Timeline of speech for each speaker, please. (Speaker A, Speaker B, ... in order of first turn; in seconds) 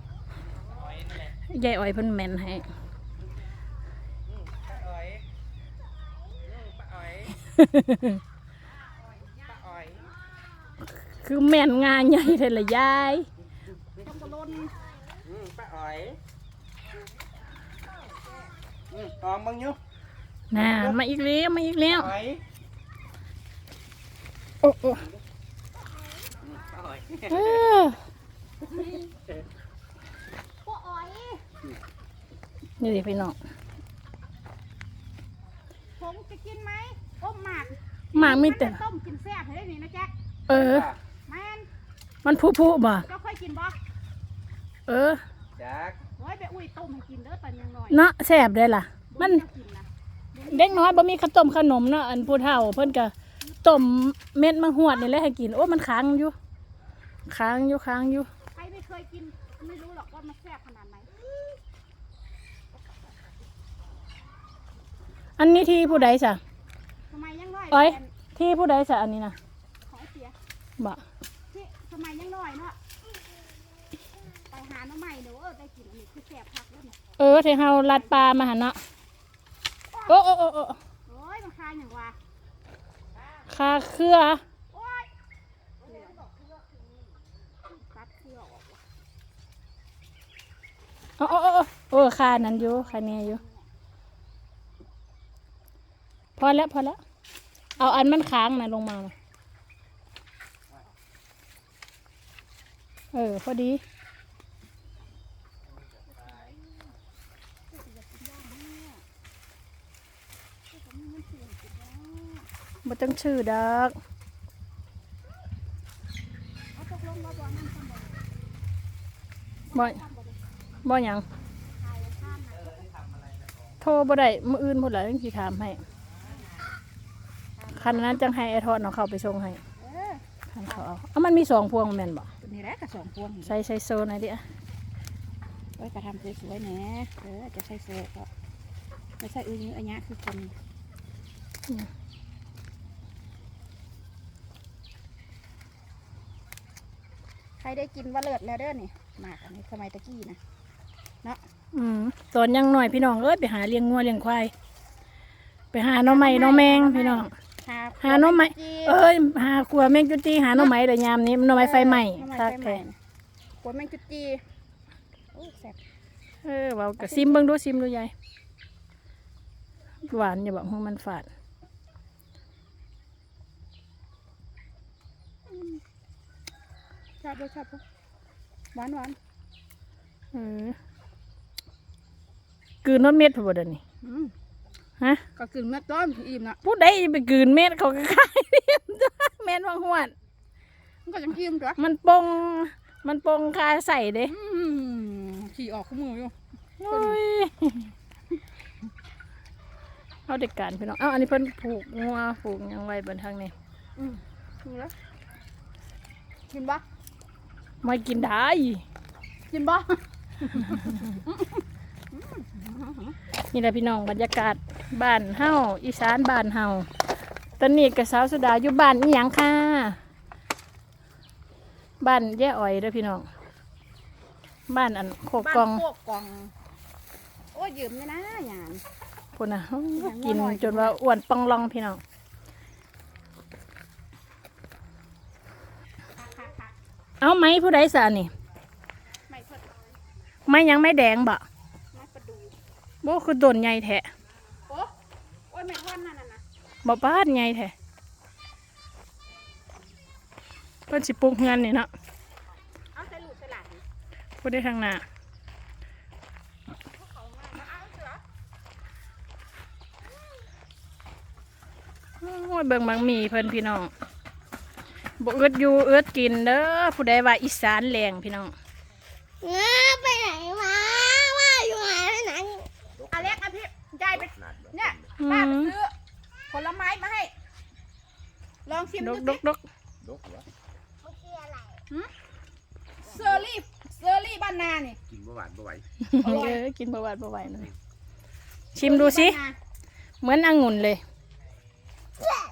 Speaker A: 1.5-2.7, 7.4-8.2, 11.2-13.3, 20.5-22.1, 24.6-25.1, 27.3-28.0, 32.8-33.4, 38.1-38.8, 40.5-40.9, 42.2-43.1, 44.9-45.2, 47.9-49.4, 50.5-53.1, 53.6-56.4, 57.3-58.3, 65.4-66.4, 67.7-69.4, 77.2-78.8, 80.1-80.8, 83.5-84.4, 91.2-93.4, 96.4-97.0, 97.8-99.1, 103.1-103.8, 112.8-114.0, 119.7-120.0, 120.8-121.2, 123.8-125.8, 127.8-129.6, 130.5-132.3, 133.5-134.4, 151.7-154.5, 155.7-157.3, 158.0-162.8, 166.4-168.1, 170.1-171.3, 180.3-180.8, 182.8-183.8, 186.6-190.1, 191.8-194.3, 196.8-197.9, 200.3-203.5, 207.8-208.8, 213.5-216.9, 217.6-220.0, 222.0-223.3, 224.7-225.8, 229.4-232.0, 237.2-238.3, 240.5-241.4, 243.0-244.1, 246.8-247.7, 250.9-251.9, 254.4-255.0, 262.2-263.9, 265.2-268.5, 275.2-275.7, 279.0-279.6, 286.0-287.7, 288.7-289.4, 290.2-291.0
Speaker B: 14.0-14.8, 30.6-31.4, 36.0-40.1, 41.3-41.7, 43.0-43.8, 46.2-48.0, 49.1-51.0, 53.4-53.9, 58.5-61.1, 65.4-66.1, 67.1-68.1, 69.9-70.3, 71.5-72.8, 74.5-77.0, 79.9-80.2, 81.1-82.2, 84.7-85.1, 85.8-86.4, 87.7-88.8, 91.9-93.7, 107.7-109.0, 110.7-112.5, 116.8-118.2, 119.7-120.4, 121.7-122.9, 127.6-128.1, 129.8-130.8, 132.4-133.5, 135.8-138.3, 139.2-140.5, 147.6-150.4, 156.1-159.0, 161.5-162.9, 163.6-164.4, 165.3-165.8, 167.0-167.4, 175.5-175.8, 177.2-177.8, 178.7-179.2, 184.0-184.3, 185.4-186.6, 191.1-191.8, 194.3-196.3, 196.9-197.2, 204.0-204.9, 206.5-206.8, 209.5-213.2, 225.4-226.5, 227.5-228.8, 230.0-230.9, 236.2-236.7, 239.3-239.8, 241.9-242.5, 244.7-244.9, 245.5-246.4, 252.9-253.8, 256.9-258.2, 273.1-275.9, 276.5-277.3, 278.7-279.4, 283.0-285.0, 286.2-286.6, 288.8-289.6
Speaker C: 15.3-16.2, 18.9-19.8, 20.6-21.0, 21.9-22.4, 26.6-27.5, 40.6-41.0, 45.6-46.0
Speaker D: 269.4-272.6, 281.0-281.7
Speaker E: 272.9-273.4, 274.1-275.1, 280.0-280.5, 285.1-285.9